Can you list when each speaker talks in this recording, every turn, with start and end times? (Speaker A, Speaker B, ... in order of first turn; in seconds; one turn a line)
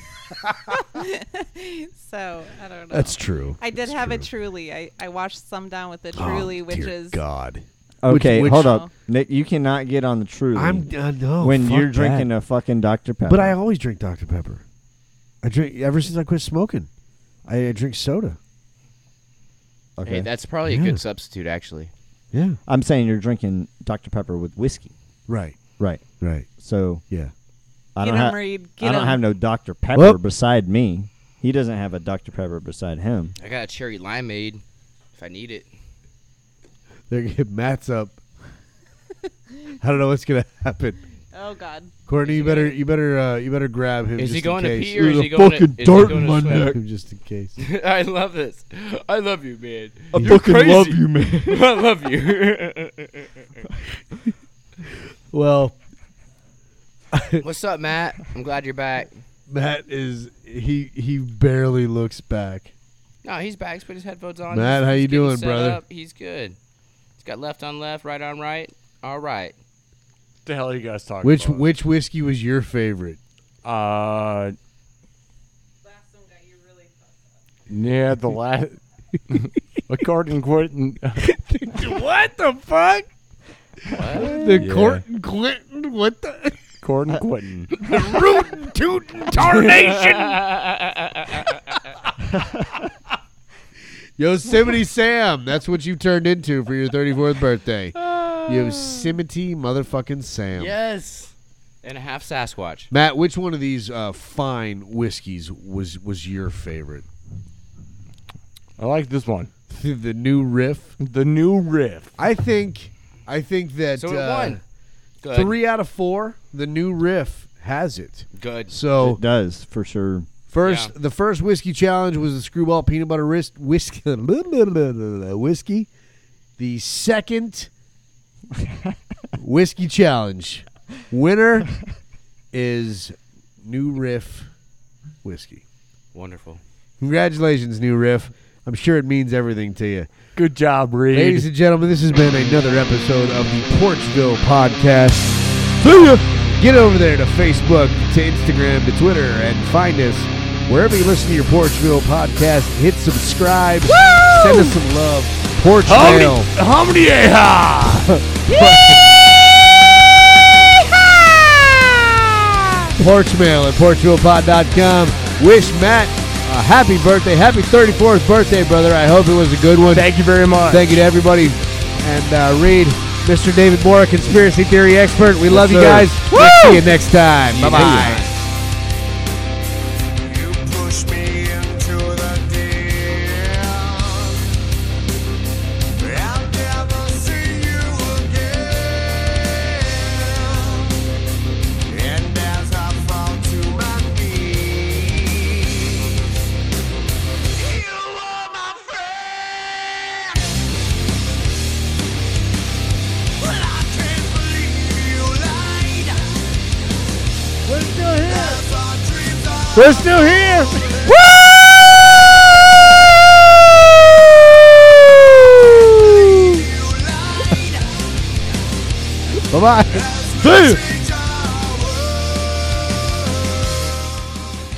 Speaker A: 0.4-0.8
Speaker B: 0.8-7.2
Speaker A: 2.9-4.3
Speaker A: 6.1-8.8
Speaker C: 8.0-13.6
Speaker B: 8.5-8.9
Speaker A: 10.5-12.3
Speaker A: 13.2-14.6
Speaker A: 15.4-16.9
Speaker A: 17.4-18.4
Speaker C: 20.0-20.3
Speaker D: 20.0-21.9
Speaker A: 20.6-21.0
Speaker A: 22.3-22.6
Speaker C: 22.6-24.9
Speaker A: 25.3-25.6
Speaker C: 25.8-27.0
Speaker A: 26.2-26.5
Speaker C: 27.9-33.4
Speaker B: 28.0-29.2
Speaker D: 33.4-34.6
Speaker D: 35.1-35.7
Speaker A: 37.1-38.2
Speaker A: 39.8-41.0
Speaker B: 41.3-41.9
Speaker A: 42.0-47.6
Speaker D: 42.2-42.8
Speaker D: 44.2-46.8
Speaker C: 45.0-46.8
Speaker D: 47.6-53.6
Speaker C: 50.1-51.6
Speaker A: 50.1-50.4
Speaker A: 55.3-55.7
Speaker A: 57.1-57.4
Speaker D: 57.4-59.2
Speaker A: 59.5-62.7
Speaker D: 63.2-66.6
Speaker A: 64.5-65.8
Speaker D: 67.2-69.5
Speaker E: 70.4-71.7
Speaker A: 71.2-73.2
Speaker E: 73.6-74.6
Speaker B: 75.8-77.1
Speaker E: 77.7-81.3
Speaker A: 81.3-83.1
Speaker D: 83.9-84.3
Speaker A: 84.1-87.2
Speaker C: 84.1-84.7
Speaker E: 84.5-85.0
Speaker E: 86.8-88.1
Speaker A: 87.7-90.5
Speaker E: 89.4-90.3
Speaker D: 90.6-91.8
Speaker C: 92.3-92.6
Speaker A: 94.2-100.7
Speaker D: 98.0-99.2
Speaker D: 100.5-102.9
Speaker A: 102.9-107.0
Speaker E: 108.8-109.5
Speaker A: 109.7-111.0
Speaker E: 111.0-112.2
Speaker A: 112.2-114.6
Speaker D: 113.9-114.6
Speaker D: 115.2-115.6
Speaker A: 115.3-119.2
Speaker D: 118.3-118.7
Speaker C: 119.0-120.3
Speaker A: 120.5-125.9
Speaker D: 120.6-120.9
Speaker A: 126.6-127.7
Speaker A: 129.4-131.8
Speaker A: 132.5-134.5
Speaker A: 135.2-135.6
Speaker D: 136.1-136.6
Speaker A: 137.0-140.1
Speaker E: 140.3-141.5
Speaker A: 141.1-156.5
Speaker E: 153.9-154.7
Speaker E: 155.8-158.8
Speaker A: 157.9-159.0
Speaker E: 161.7-162.1
Speaker A: 163.0-170.1
Speaker E: 169.9-170.9
Speaker A: 170.7-178.3
Speaker C: 175.5-176.0
Speaker E: 175.6-176.7
Speaker D: 176.3-176.8
Speaker D: 177.4-178.4
Speaker C: 177.7-178.2
Speaker F: 180.2-184.6
Speaker F: 185.9-191.1
Speaker F: 191.8-196.4
Speaker F: 197.5-200.6
Speaker F: 203.4-206.9
Speaker A: 207.6-208.6
Speaker F: 207.7-211.5
Speaker A: 209.7-210.9
Speaker A: 215.6-216.6
Speaker F: 215.9-218.6
Speaker A: 219.5-220.8
Speaker F: 219.9-223.1
Speaker E: 220.4-220.7